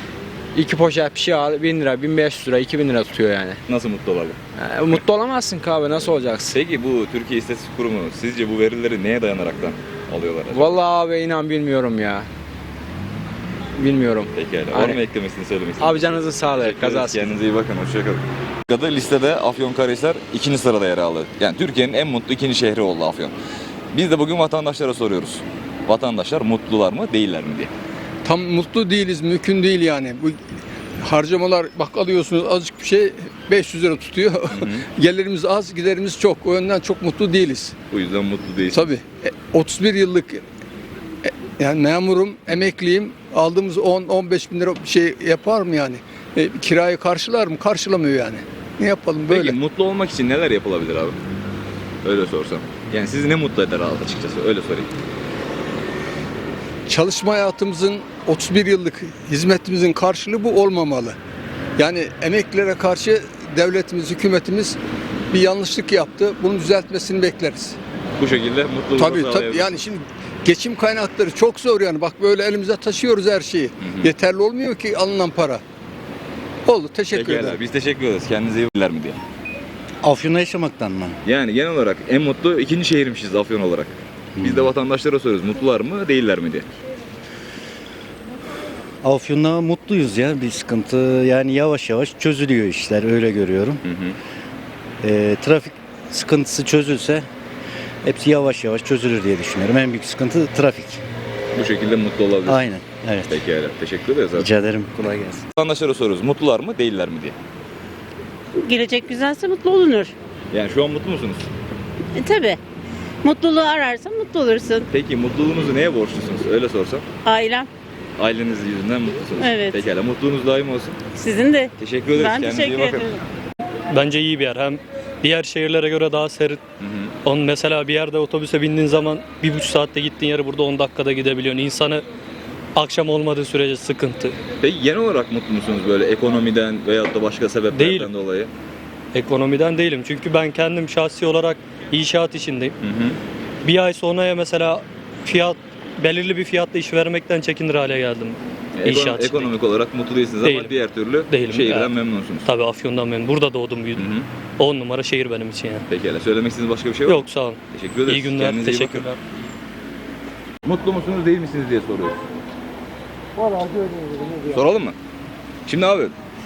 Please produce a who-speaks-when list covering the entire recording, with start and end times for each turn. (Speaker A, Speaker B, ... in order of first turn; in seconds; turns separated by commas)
Speaker A: 0.5-3.6, Speaker B: 3.7-4.4, Speaker A: 4.6-6.5, Speaker B: 6.5-10.8, Speaker A: 10.5-12.3, Speaker A: 13.8-15.0, Speaker B: 14.3-23.3, Speaker A: 15.8-17.3, Speaker B: 23.9-27.7, Speaker C: 28.2-30.4, Speaker C: 31.0-37.7, Speaker B: 34.5-34.8, Speaker B: 37.9-38.9, Speaker C: 38.7-40.4, Speaker C: 41.2-49.6, Speaker B: 49.3-51.2, Speaker B: 52.0-54.9, Speaker C: 56.9-61.2, Speaker C: 61.8-64.8, Speaker C: 65.3-67.8, Speaker B: 68.2-69.8, Speaker C: 69.0-75.6, Speaker B: 73.8-74.1, Speaker C: 76.7-77.6, Speaker B: 77.1-79.2, Speaker D: 80.0-81.2, Speaker B: 81.2-86.7, Speaker D: 89.0-93.8, Speaker B: 93.8-94.2, Speaker D: 95.0-97.3, Speaker D: 98.0-101.0, Speaker B: 101.5-102.7, Speaker D: 102.5-103.4, Speaker B: 103.3-104.5, Speaker D: 104.4-105.4, Speaker B: 105.5-107.3, Speaker E: 108.6-110.1, Speaker B: 110.5-111.5, Speaker E: 112.2-112.6, Speaker E: 113.2-114.8, Speaker B: 114.9-117.0, Speaker E: 117.2-117.7, Speaker B: 118.2-121.0, Speaker E: 119.4-119.8, Speaker E: 121.2-123.1, Speaker B: 121.8-123.1, Speaker F: 123.9-126.6, Speaker B: 126.8-127.1, Speaker F: 127.2-132.0, Speaker F: 132.8-134.4, Speaker B: 134.6-138.5, Speaker F: 137.7-138.1, Speaker F: 139.1-142.7, Speaker B: 142.8-143.2, Speaker F: 143.6-149.6, Speaker B: 148.8-152.5, Speaker F: 150.4-150.8, Speaker F: 151.3-154.1, Speaker B: 154.0-154.3, Speaker F: 154.6-155.8, Speaker B: 155.9-159.1, Speaker F: 157.1-159.2, Speaker B: 160.6-162.2, Speaker B: 164.5-165.0, Speaker B: 165.7-166.1